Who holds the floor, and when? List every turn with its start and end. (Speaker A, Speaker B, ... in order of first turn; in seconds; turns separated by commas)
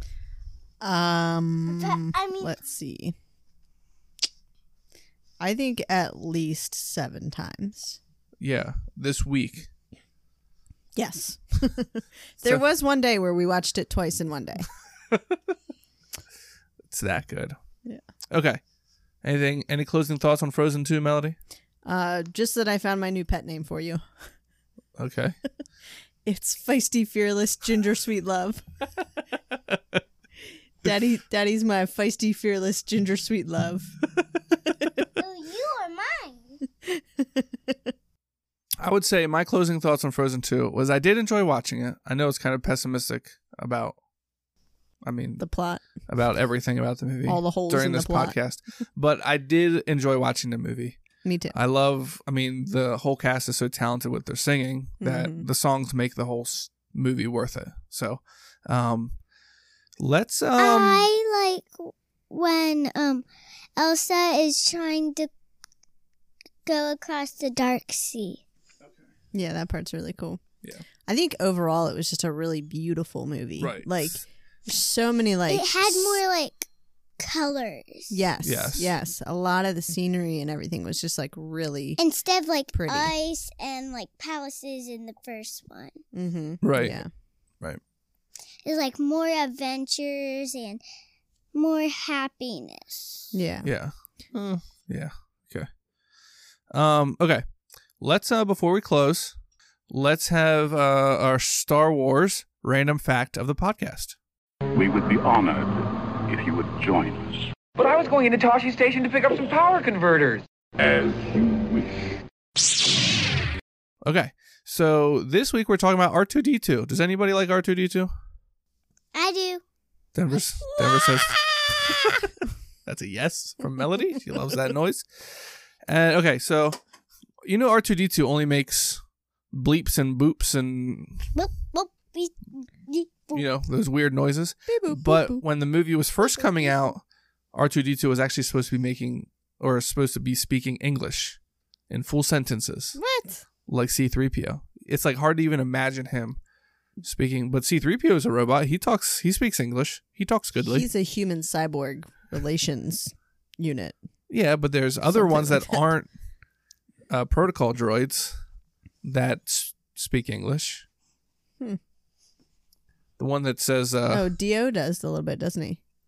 Speaker A: 0.8-3.1, Speaker B: 1.7-2.5, Speaker A: 5.4-8.0, Speaker C: 8.4-9.7, Speaker A: 10.9-14.7, Speaker C: 16.9-17.5, Speaker C: 18.3-18.6, Speaker C: 19.2-21.4, Speaker A: 21.8-24.0, Speaker C: 25.0-25.4, Speaker A: 26.2-28.6, Speaker A: 30.8-33.9, Speaker B: 35.2-36.6, Speaker A: 36.9-37.8, Speaker C: 38.8-44.0, Speaker C: 45.0-45.4, Speaker A: 45.4-45.8, Speaker C: 46.1-51.0, Speaker A: 47.2-48.4, Speaker A: 51.2-51.5, Speaker C: 51.5-59.1, Speaker A: 55.0-55.4, Speaker C: 60.0-61.1, Speaker D: 60.6-63.2, Speaker D: 63.8-65.3, Speaker D: 66.7-68.4, Speaker A: 69.3-70.4, Speaker A: 71.1-76.1, Speaker C: 73.6-74.1, Speaker D: 75.5-76.7, Speaker D: 77.2-78.2, Speaker A: 78.1-82.0, Speaker C: 78.4-78.9, Speaker D: 82.0-86.0, Speaker A: 82.7-83.1, Speaker A: 86.1-87.1, Speaker C: 86.6-87.0, Speaker D: 88.6-90.8, Speaker D: 91.5-93.3, Speaker A: 93.3-93.7, Speaker C: 93.6-95.7, Speaker C: 96.7-97.4, Speaker C: 98.0-99.3, Speaker C: 99.9-104.2, Speaker E: 104.7-107.5, Speaker F: 107.8-110.5, Speaker E: 110.8-112.0, Speaker C: 114.0-118.1, Speaker D: 119.1-119.6, Speaker C: 120.1-121.4, Speaker C: 122.8-126.8, Speaker C: 127.4-129.0, Speaker C: 129.5-131.3, Speaker D: 131.3-133.4, Speaker C: 133.3-137.0, Speaker A: 134.7-135.4, Speaker C: 137.5-141.4, Speaker C: 141.9-143.0, Speaker A: 142.9-143.4, Speaker C: 143.7-146.4, Speaker C: 147.0-150.9, Speaker A: 150.6-153.9, Speaker C: 154.3-156.1, Speaker A: 155.1-155.8, Speaker C: 157.1-158.3, Speaker C: 159.0-160.8, Speaker C: 163.2-164.3, Speaker A: 164.1-165.8